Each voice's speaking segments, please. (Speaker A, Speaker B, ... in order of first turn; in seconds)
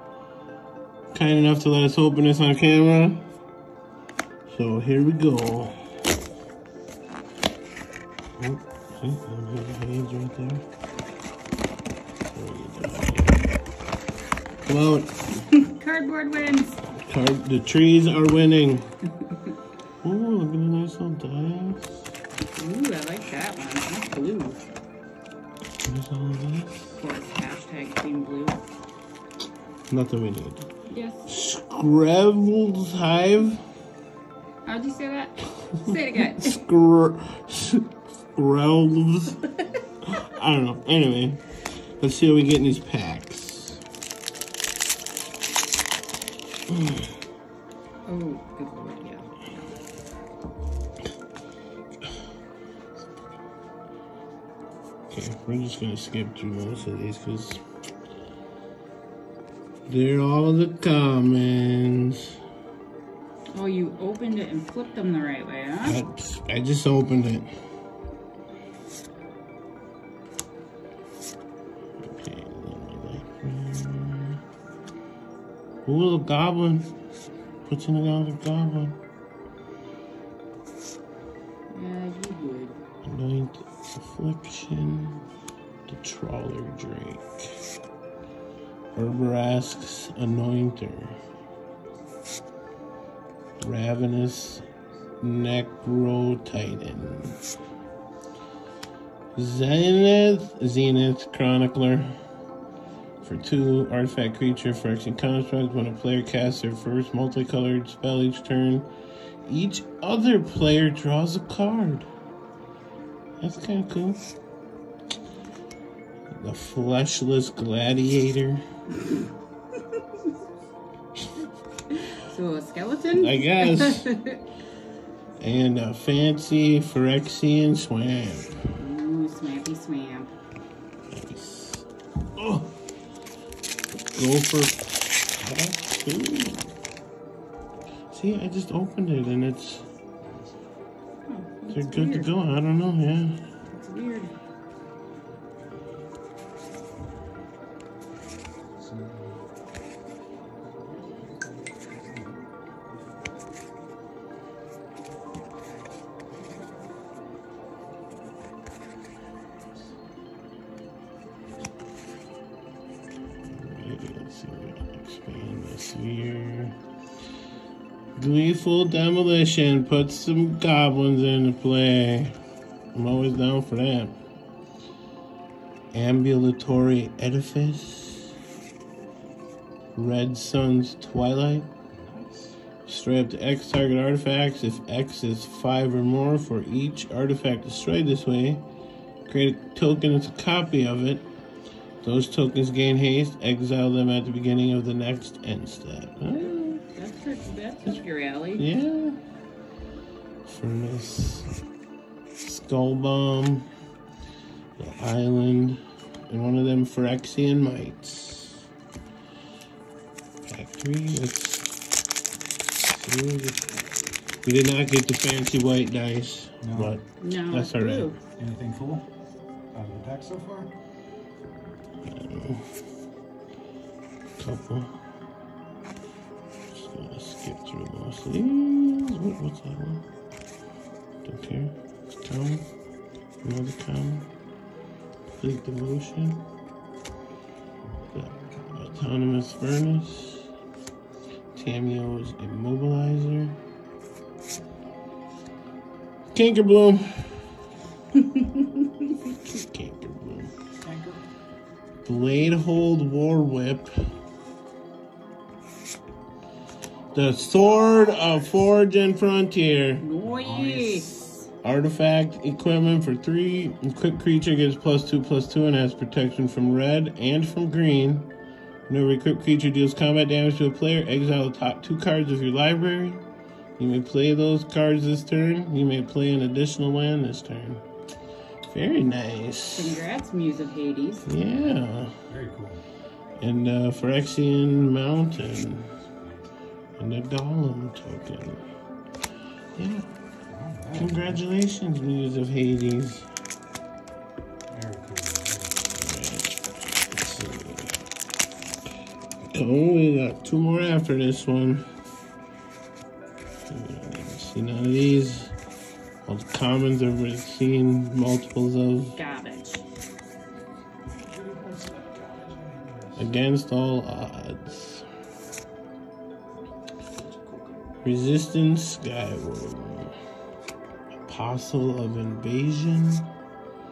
Speaker A: 1.1-3.2, 4.5-5.7, 8.4-10.6, 12.3-13.5, 14.6-15.3, 16.9-18.9, 20.0-22.0, 25.8-27.0, 29.9-30.7, 31.3-33.6, 36.1-39.4, 40.1-41.4, 42.0-43.8, 46.7-47.0, 55.1-57.6, 59.9-62.3, 65.8-67.5, 72.0-74.4, 75.8-76.9, 77.7-79.0, 83.0-85.2, 85.9-87.5, 88.9-91.2, 93.6-94.6, 95.2-97.4, 99.3-102.2, 103.2-108.9, 109.4-112.1, 113.4-114.2, 116.3-118.6, 123.1-124.1, 125.4-128.6, 131.1-132.7, 134.1-136.7, 138.1-139.8, 141.7-143.4, 163.5-166.8, 168.2-172.3, 172.9-174.2, 175.9-178.3, 179.9-181.7, 182.8-188.6, 189.3-191.3, 192.0-196.8, 198.6-199.2, 200.4-201.5, 202.4-203.7, 204.8-208.7, 210.5-211.7, 212.8-213.7, 214.4-218.1, 222.0-222.7, 224.4-224.9, 226.7-230.0, 231.2-232.6, 233.4-234.3, 235.4-236.4, 238.1-240.5, 241.5-243.6, 246.3-247.4, 249.5-250.5, 252.0-254.0, 257.1-260.1, 261.6-268.3, 268.9-273.2, 273.8-277.8, 278.7-279.9, 281.2-282.2, 283.4-285.9, 287.0-288.6, 289.8-290.1, 290.9-293.3, 295.9-298.0, 299.4-301.9, 303.7-305.5, 306.2-309.2, 313.1-315.1, 318.0-320.1, 321.2-323.3
Speaker B: 15.5-16.8, 22.5-24.6, 27.0-28.6, 30.9-31.3, 34.6-36.6, 48.1-49.3, 63.5-66.0, 81.7-82.8, 122.2-124.4, 128.7-130.3, 141.2-142.3, 143.7-144.3, 196.3-198.6, 217.2-218.2, 260.0-261.2, 279.7-281.3, 309.1-309.8
Speaker C: 140.2-140.6, 148.8-149.4, 181.9-182.6, 216.6-217.0, 218.3-219.1, 219.7-220.7, 237.8-239.0, 250.8-251.2, 260.2-261.3, 282.3-282.8, 290.5-291.4, 294.7-295.9, 311.3-313.3